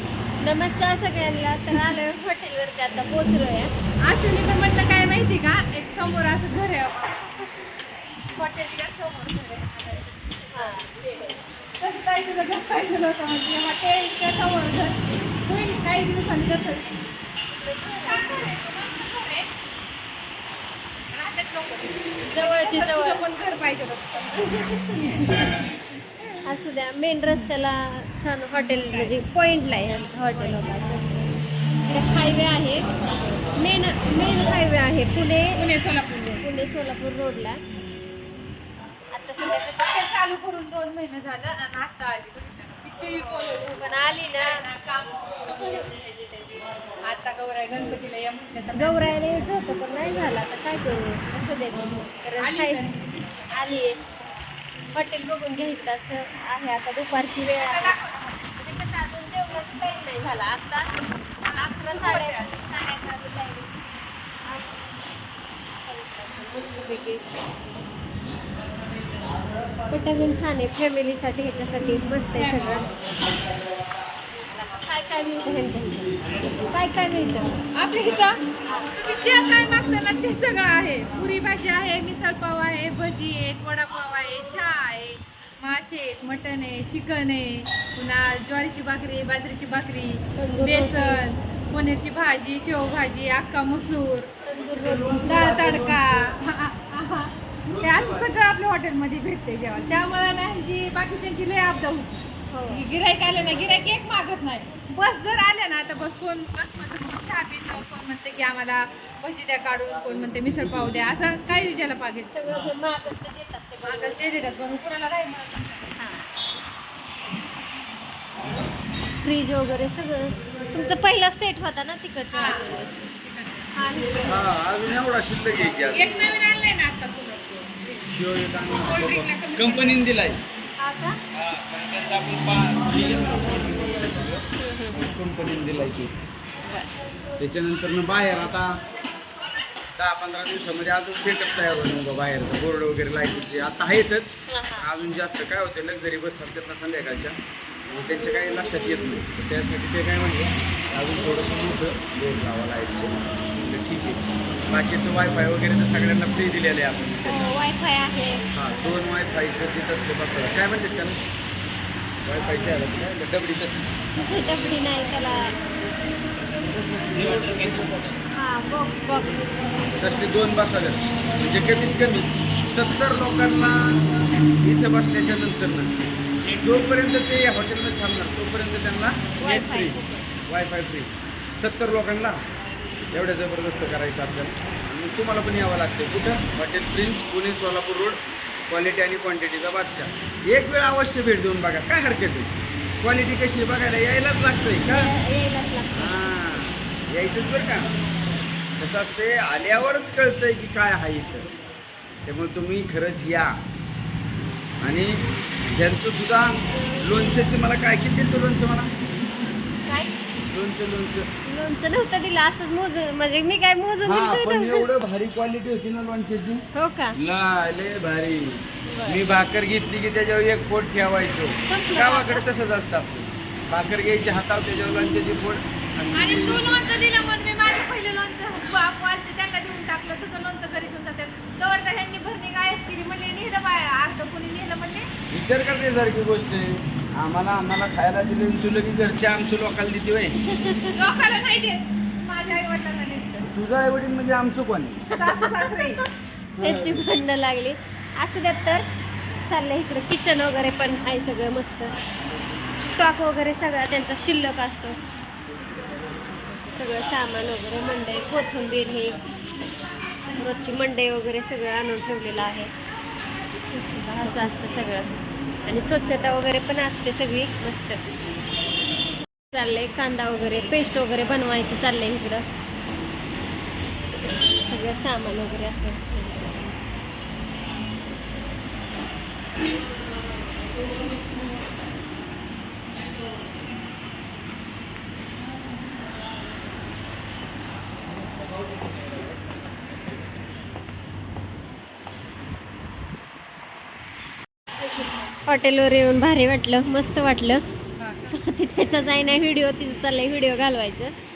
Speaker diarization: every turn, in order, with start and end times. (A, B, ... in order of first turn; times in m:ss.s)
0:00.4-0:03.7 A
0:01.7-0:02.0 B
0:04.0-0:07.6 B
0:08.3-0:17.0 B
0:10.5-0:10.9 A
0:17.6-0:18.5 A
0:18.0-0:19.5 B
0:21.1-0:26.4 B
0:22.3-0:23.2 A
0:24.4-0:24.9 A
0:26.4-0:31.2 A
0:28.6-0:29.2 B
0:31.8-0:32.8 A
0:33.5-0:35.6 A
0:35.5-0:36.4 B
0:36.4-0:37.6 A
0:39.1-0:40.0 A
0:39.4-0:49.1 B
0:43.4-0:44.6 A
0:48.7-0:52.8 A
0:52.4-0:53.6 B
0:53.5-0:53.9 A
0:54.9-0:58.0 A
0:57.6-0:58.4 B
0:58.5-1:03.7 A
1:01.4-1:02.6 B
1:04.5-1:04.9 A
1:05.8-1:07.2 A
1:09.9-1:12.9 A
1:12.3-1:12.9 B
1:14.3-1:17.5 A
1:17.7-1:18.4 B
1:18.9-1:34.3 B
1:30.4-1:31.2 A
1:34.4-1:35.5 A
1:34.7-1:36.3 C
1:35.2-1:52.7 B
1:37.6-1:38.3 C
1:42.5-1:42.8 A
1:52.3-1:54.2 A
1:53.8-1:55.9 B
1:56.0-1:56.3 A
1:59.2-2:03.0 A
2:02.3-2:03.7 B
2:03.7-2:04.5 A
2:04.2-2:06.2 C
2:05.9-2:08.1 B
2:08.1-2:10.4 C
2:08.7-2:10.0 B
2:10.8-2:11.2 A
2:11.3-2:16.1 C
2:14.6-2:15.0 A
2:16.6-2:16.9 A
2:17.4-2:18.7 C
2:20.0-2:27.4 C
2:24.5-2:24.9 A
2:27.9-2:37.4 C
2:28.2-2:29.0 A
2:37.2-2:38.4 A
2:38.5-2:41.3 C
2:42.2-2:43.9 C
2:44.2-2:45.5 A
2:46.7-2:48.2 C
2:48.3-2:49.4 A
2:49.9-2:54.0 C
2:54.6-3:02.4 C
2:59.4-3:00.2 A
3:03.1-3:15.1 C
3:14.9-3:16.2 A
3:15.9-3:17.9 C
3:18.8-3:21.5 C
3:22.2-3:23.5 C
3:24.8-3:28.9 C
3:29.9-3:30.1 A
3:30.5-3:31.2 C
3:31.4-3:34.9 A
3:34.0-3:36.6 C
3:36.8-3:37.2 A
3:37.2-3:46.6 C
3:38.8-3:39.2 A
3:41.7-3:42.4 A
3:46.1-3:55.1 B
3:55.3-4:00.4 C
4:00.5-4:00.9 A
4:00.9-4:03.5 B
4:03.4-4:05.0 C
4:05.1-4:06.0 B
4:05.3-4:05.8 A
4:06.6-4:07.1 C
4:06.6-4:08.9 A
4:09.5-4:11.9 A
4:12.8-4:15.0 A
4:16.7-4:19.2 A
4:20.3-4:22.7 A
4:23.7-4:24.5 B
4:24.0-4:25.1 A
4:25.6-4:28.0 A
4:29.5-4:32.4 A
4:34.7-4:36.8 A
4:55.5-4:57.7 A
4:58.0-4:58.4 B
4:58.2-5:01.1 A